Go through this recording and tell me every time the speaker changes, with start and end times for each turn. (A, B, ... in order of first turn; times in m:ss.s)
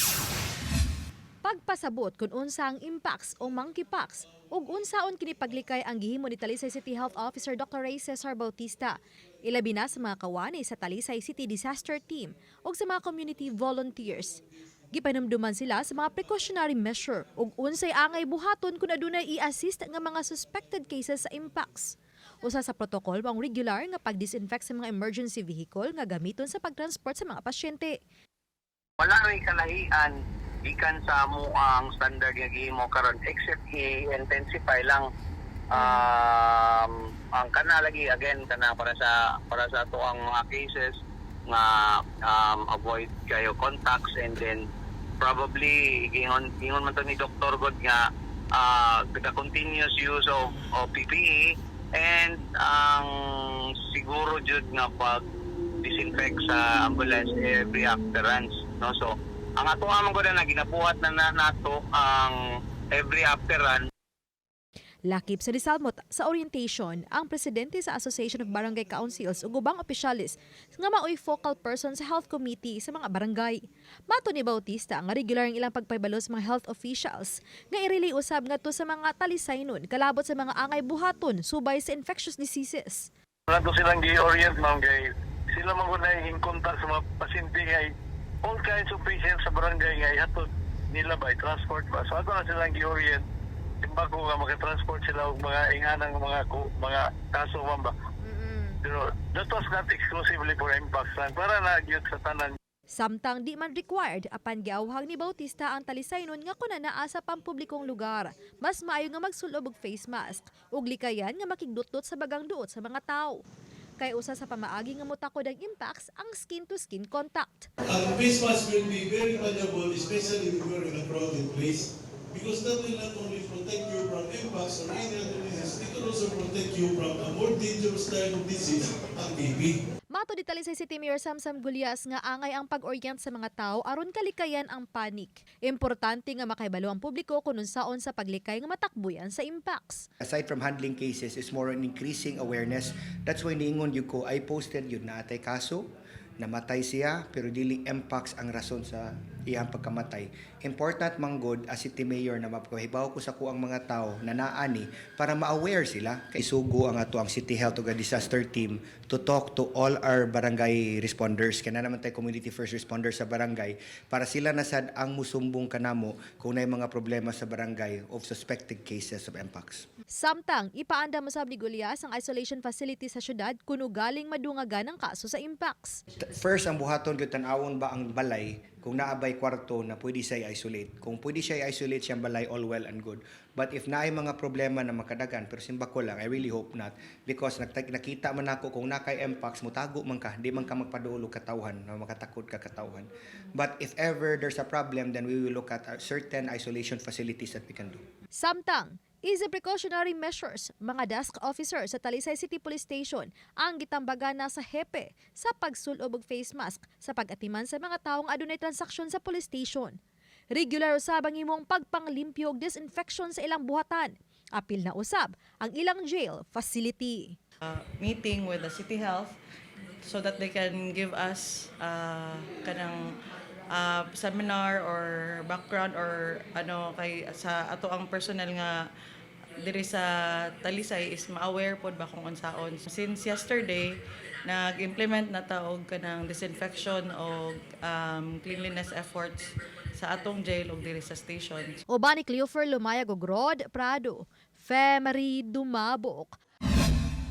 0:01.4-0:27.9 A
0:29.0-0:30.1 B
0:30.6-0:35.0 B
0:35.7-0:40.9 B
0:41.5-0:44.6 B
0:45.2-0:48.0 B
0:48.6-0:53.1 B
0:53.9-0:55.2 B
0:55.8-1:02.3 B
1:02.9-1:03.8 B
1:05.1-1:23.1 A
1:23.5-1:27.9 C
1:28.4-1:33.2 C
1:33.8-1:37.9 C
1:38.2-1:38.8 A
1:38.8-1:42.5 C
1:43.0-1:53.4 A
1:54.0-1:57.7 A
1:57.9-2:09.8 D
2:10.1-2:20.1 A
2:20.2-2:25.9 E
2:26.4-2:49.8 E
2:50.2-2:56.0 A
2:56.2-3:18.0 E
3:18.3-3:30.0 A
3:30.5-3:37.4 A
3:37.6-3:39.4 F
3:40.0-3:43.0 F
3:43.7-3:48.8 F
3:49.6-3:53.9 F
3:54.4-4:01.7 F
4:01.9-4:06.4 A